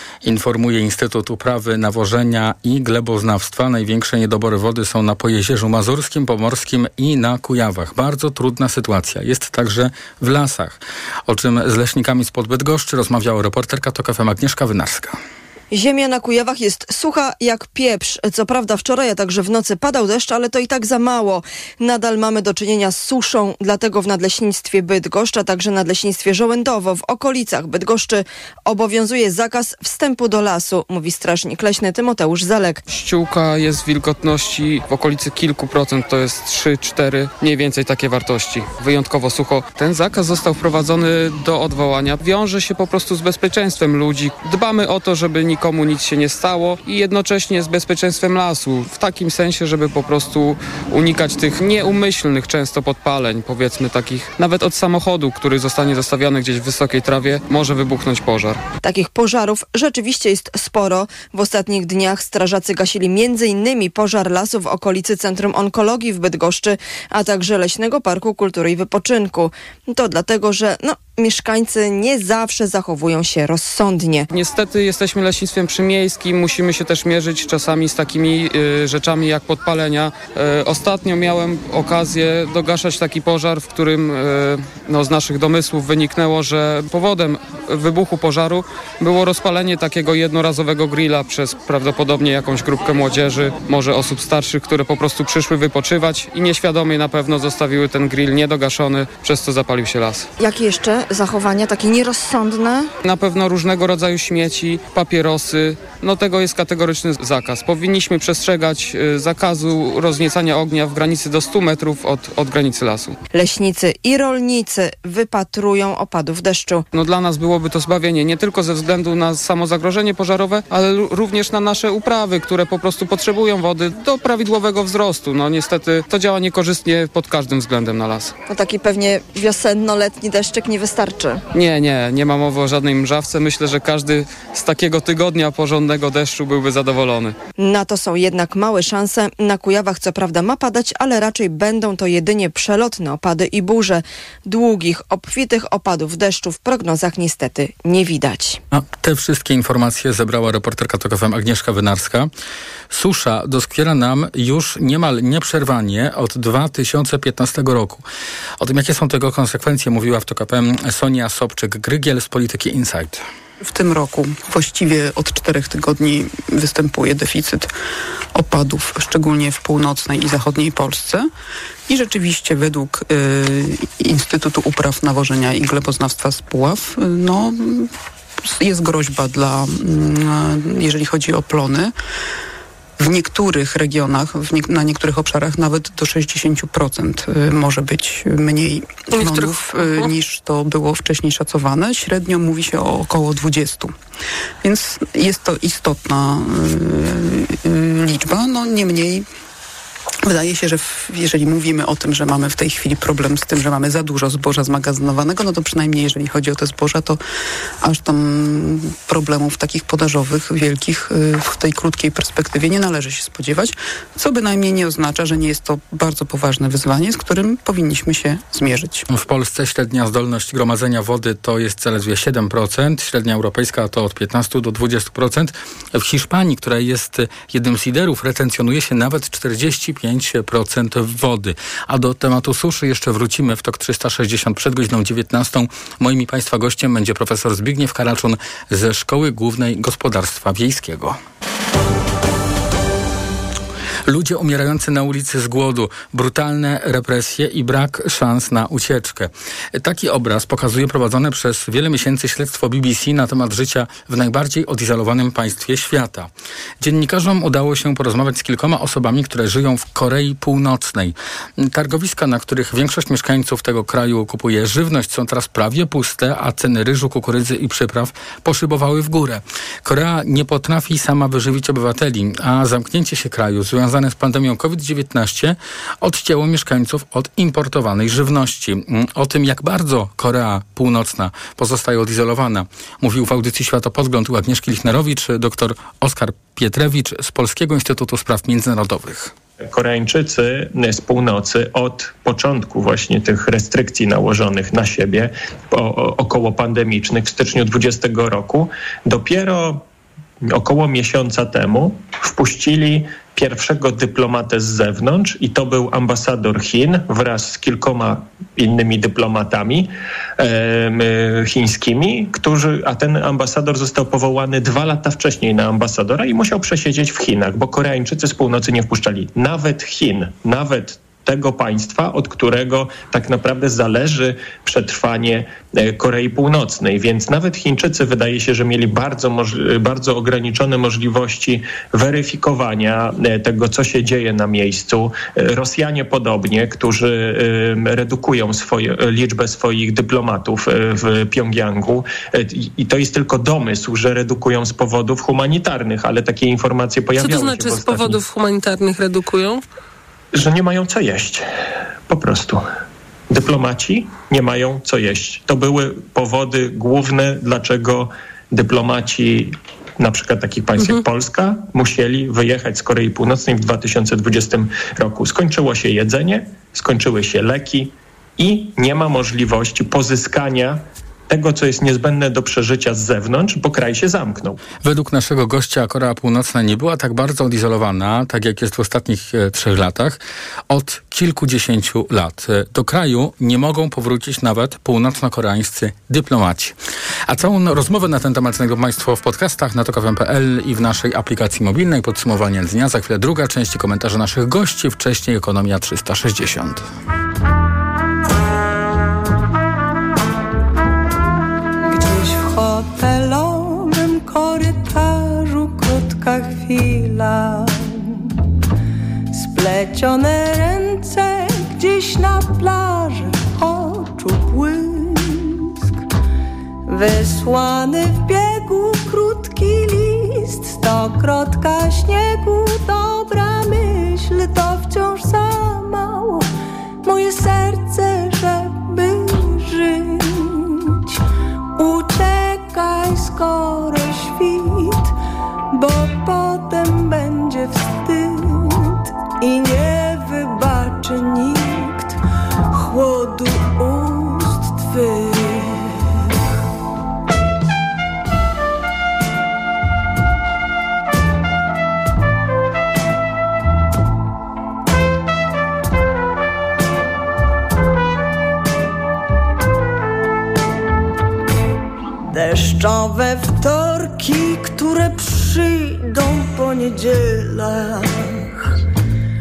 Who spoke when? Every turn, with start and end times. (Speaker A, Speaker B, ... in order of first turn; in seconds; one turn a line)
Speaker A: 0.2-15.2
Speaker B: 15.7-32.8
Speaker C: 32.9-58.6
Speaker B: 58.8-74.3
Speaker C: 74.3-100.3
Speaker B: 100.4-102.9
Speaker C: 103.0-113.2
Speaker B: 113.3-116.8
Speaker C: 116.9-128.3
Speaker B: 128.5-131.4
Speaker C: 131.5-137.3
Speaker B: 137.6-148.6
Speaker A: 148.7-152.3
Speaker A: 152.9-158.0
Speaker A: 158.6-163.2
Speaker D: 163.6-167.7
Speaker D: 168.3-171.3
Speaker D: 171.9-177.9
Speaker D: 178.4-181.9
Speaker D: 183.0-194.0
Speaker E: 189.2-189.8
Speaker D: 194.6-199.3
Speaker D: 200.2-207.2
Speaker D: 207.8-219.0
Speaker A: 219.1-241.2
Speaker A: 244.1-289.3
Speaker F: 289.6-299.8
Speaker F: 300.5-348.2
Speaker E: 347.2-349.6
Speaker F: 350.3-351.4
Speaker F: 352.1-352.6
Speaker F: 353.3-374.6
Speaker A: 374.8-386.8
Speaker A: 387.3-396.8
Speaker G: 401.9-408.2
Speaker G: 409.3-416.0
Speaker G: 416.9-426.5
Speaker G: 427.0-431.2
Speaker G: 431.8-435.1
Speaker G: 435.7-446.1
Speaker G: 462.2-468.6